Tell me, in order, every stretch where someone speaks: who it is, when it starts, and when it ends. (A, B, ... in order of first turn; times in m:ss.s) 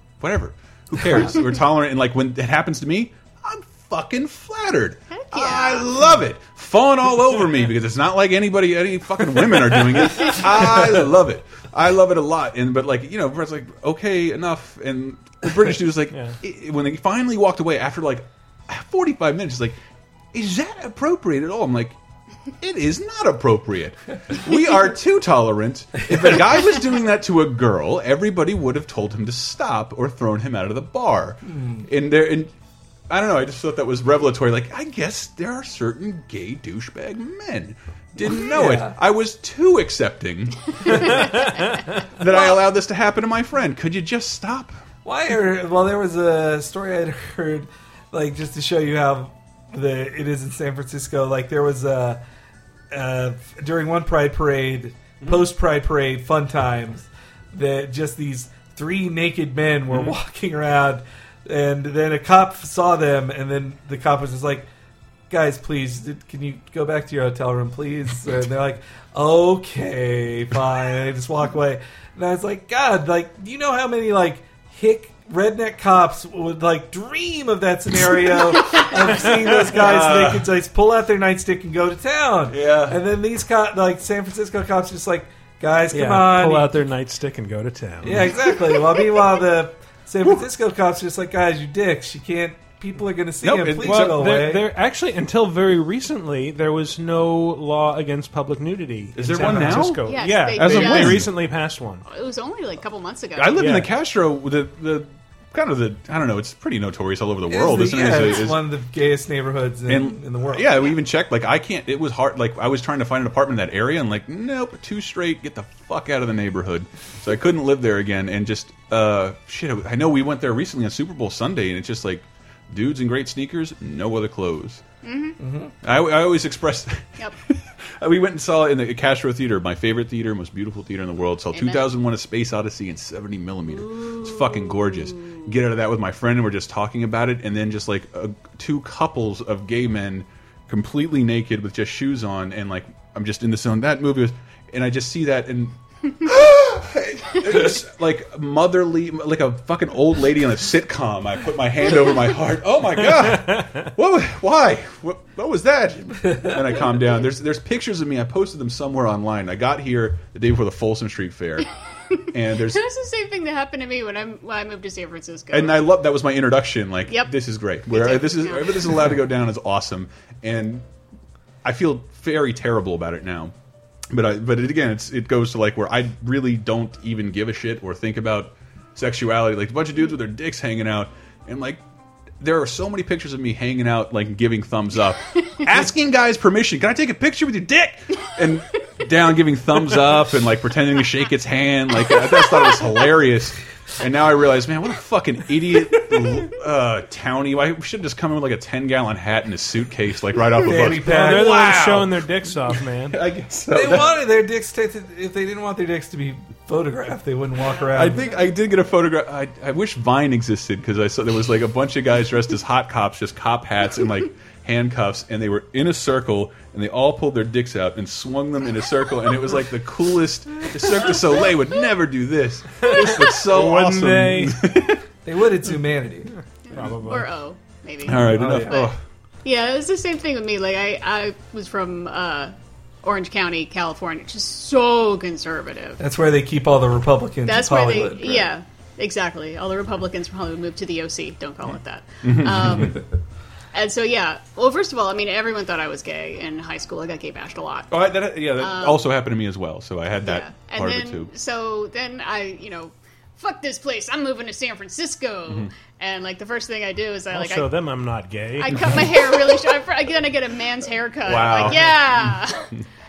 0:00.2-0:19.8 A
0:05.1-0:06.0 B
0:16.1-0:16.4 C
0:20.3-0:22.0 A
0:22.6-0:32.5 A
0:31.5-0:31.9 D
0:33.1-0:41.4 A
0:38.2-0:39.0 D
0:42.2-0:44.8 A
0:42.3-0:42.6 B
0:45.0-0:52.2 D
0:52.9-1:04.7 D
0:59.9-1:00.2 A
1:05.3-1:26.8 D
1:19.6-1:20.5 A
1:22.5-1:23.0 A
1:25.9-1:28.4 C
1:28.0-1:34.7 D
1:33.4-1:34.3 A
1:33.8-1:42.0 C
1:39.2-1:41.3 A
1:39.3-1:39.9 D
1:40.1-1:41.3 B
1:42.0-1:43.6 B
1:43.4-1:48.6 A
1:43.6-1:43.9 C
1:47.5-1:50.8 D
1:49.9-2:04.8 A
2:05.0-2:05.4 B
2:05.4-2:05.7 D
2:05.8-2:41.7 A
2:11.5-2:11.9 B
2:13.8-2:15.5 B
2:42.3-2:42.8 A
2:42.6-2:45.8 B
2:45.5-2:50.9 A
2:47.1-2:47.3 B
2:47.9-2:49.1 B
2:51.6-2:53.5 A
2:54.1-3:01.8 A
3:02.4-3:24.2 A
3:20.6-3:21.7 D
3:21.0-3:23.2 C
3:23.7-3:28.3 D
3:27.7-3:28.4 B
3:27.9-3:45.0 A
3:42.9-3:44.6 C
3:45.2-3:46.4 D
3:46.6-3:48.9 B
3:46.7-3:47.3 C
3:48.0-3:49.0 A
3:48.1-3:48.9 D
3:49.4-3:56.0 B
3:56.0-3:58.5 D
3:57.5-4:03.0 B
4:02.2-4:03.0 A
4:03.7-4:07.9 B
4:07.9-4:11.3 A
4:08.6-4:09.0 B
4:10.2-4:17.7 B
4:17.3-4:19.1 C
4:18.6-4:22.7 B
4:21.2-4:22.4 A